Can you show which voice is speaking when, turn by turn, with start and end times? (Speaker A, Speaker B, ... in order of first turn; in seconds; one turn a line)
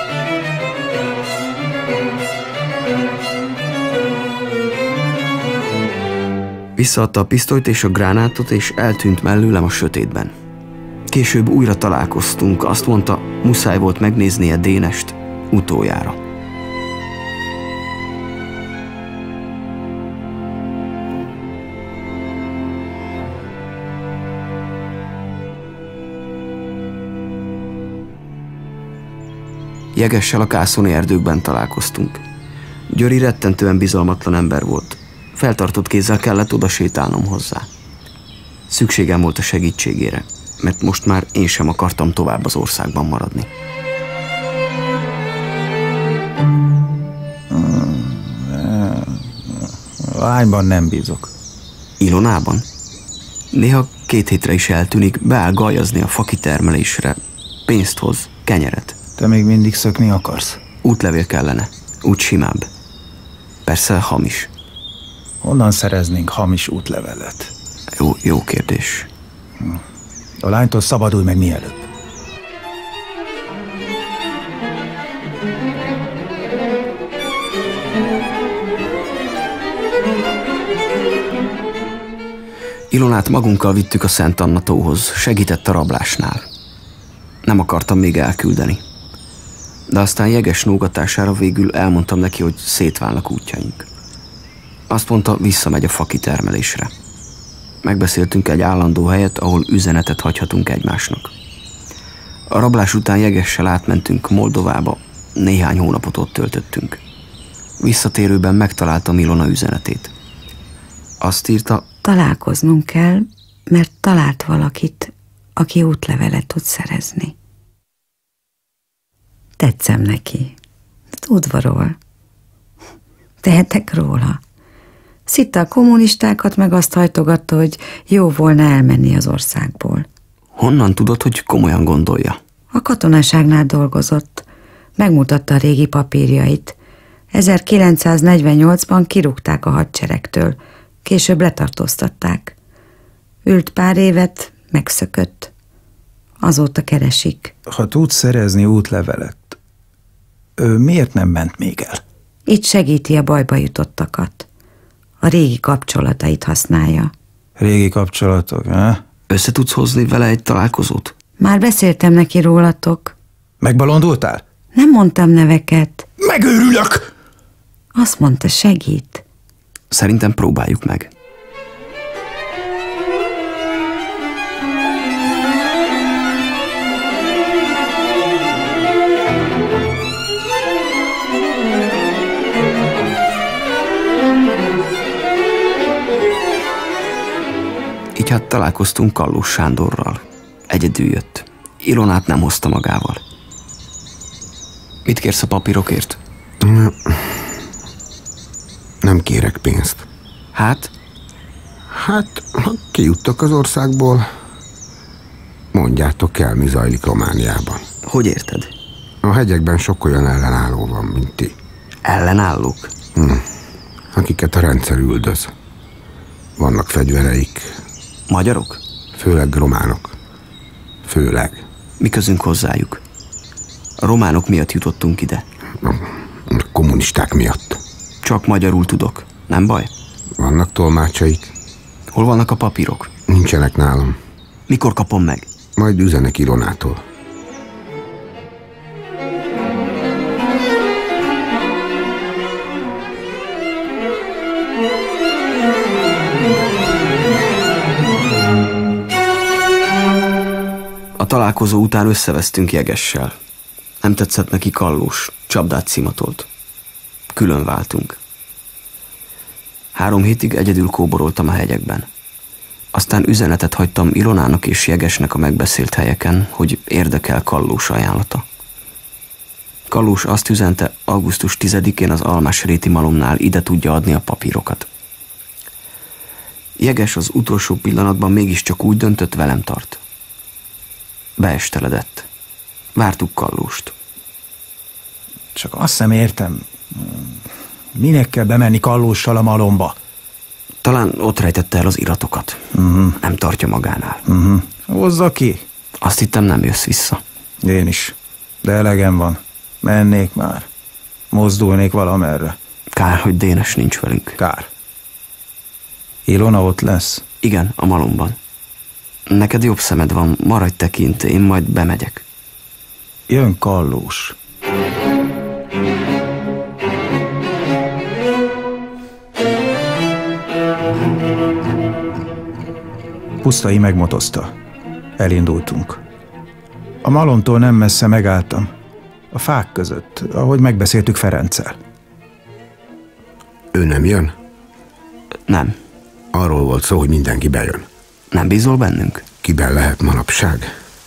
Speaker A: 6.8-10.3
Speaker A: 11.1-16.2
Speaker A: 29.9-32.2
Speaker A: 32.9-37.7
Speaker A: 38.7-43.5
Speaker B: 47.5-51.3
Speaker A: 52.0-52.6
Speaker A: 53.5-59.0
Speaker B: 59.2-60.6
Speaker A: 60.8-62.7
Speaker A: 63.7-64.5
Speaker B: 65.4-67.5
Speaker A: 68.0-69.1
Speaker B: 70.4-71.9
Speaker A: 82.9-86.5
Speaker A: 87.5-88.8
Speaker A: 89.9-93.9
Speaker A: 94.9-96.9
Speaker A: 97.8-101.3
Speaker A: 102.5-107.0
Speaker A: 107.8-110.1
Speaker A: 111.2-111.9
Speaker C: 112.0-117.3
Speaker C: 119.6-120.5
Speaker C: 121.2-122.0
Speaker C: 123.4-124.4
Speaker C: 125.3-130.1
Speaker A: 130.6-132.4
Speaker C: 132.7-134.5
Speaker C: 135.0-136.8
Speaker C: 137.3-142.6
Speaker C: 143.5-145.5
Speaker C: 146.4-147.5
Speaker B: 147.7-149.6
Speaker B: 150.6-152.0
Speaker C: 152.5-154.5
Speaker C: 155.2-157.1
Speaker B: 157.6-159.0
Speaker A: 159.3-161.2
Speaker C: 161.4-163.1
Speaker B: 163.6-164.4
Speaker C: 164.7-166.1
Speaker B: 166.2-167.1
Speaker C: 168.0-169.2
Speaker A: 169.9-171.1
Speaker A: 188.2-193.2
Speaker A: 195.1-196.2
Speaker D: 196.6-197.5
Speaker D: 199.0-200.0
Speaker A: 200.6-200.9
Speaker D: 202.0-204.3
Speaker D: 205.7-207.8
Speaker A: 208.0-208.7
Speaker D: 209.2-211.6
Speaker A: 212.1-213.0
Speaker D: 213.2-213.4
Speaker D: 214.1-215.5
Speaker D: 216.6-217.8
Speaker A: 218.3-218.8
Speaker D: 219.2-220.2
Speaker D: 221.1-221.7
Speaker A: 222.0-223.0
Speaker A: 224.0-225.5
Speaker D: 225.8-227.8
Speaker A: 228.2-229.9
Speaker D: 230.4-231.5
Speaker A: 232.1-233.1
Speaker D: 233.3-234.2
Speaker A: 234.7-235.5
Speaker D: 235.8-237.0
Speaker A: 251.2-253.4
Speaker A: 254.0-256.5
Speaker A: 257.3-258.2
Speaker A: 259.9-262.1
Speaker A: 262.9-268.4
Speaker A: 269.9-274.9
Speaker A: 276.8-280.0
Speaker A: 281.4-282.3
Speaker A: 282.9-283.9
Speaker B: 285.6-287.4
Speaker B: 287.9-290.0
Speaker A: 290.8-292.6
Speaker B: 292.8-293.2
Speaker A: 293.2-294.2
Speaker B: 294.3-295.7
Speaker A: 296.0-297.2
Speaker B: 297.6-300.7
Speaker B: 301.3-302.6
Speaker A: 302.9-304.4
Speaker B: 304.4-304.7
Speaker B: 306.3-307.2
Speaker A: 307.4-308.4
Speaker A: 309.3-312.2
Speaker B: 313.3-314.4
Speaker B: 323.4-324.5
Speaker B: 325.2-326.0
Speaker B: 327.0-328.7
Speaker B: 329.3-331.8
Speaker D: 333.7-334.4
Speaker A: 335.5-335.8
Speaker D: 336.3-337.9
Speaker A: 338.3-339.3
Speaker D: 339.4-340.7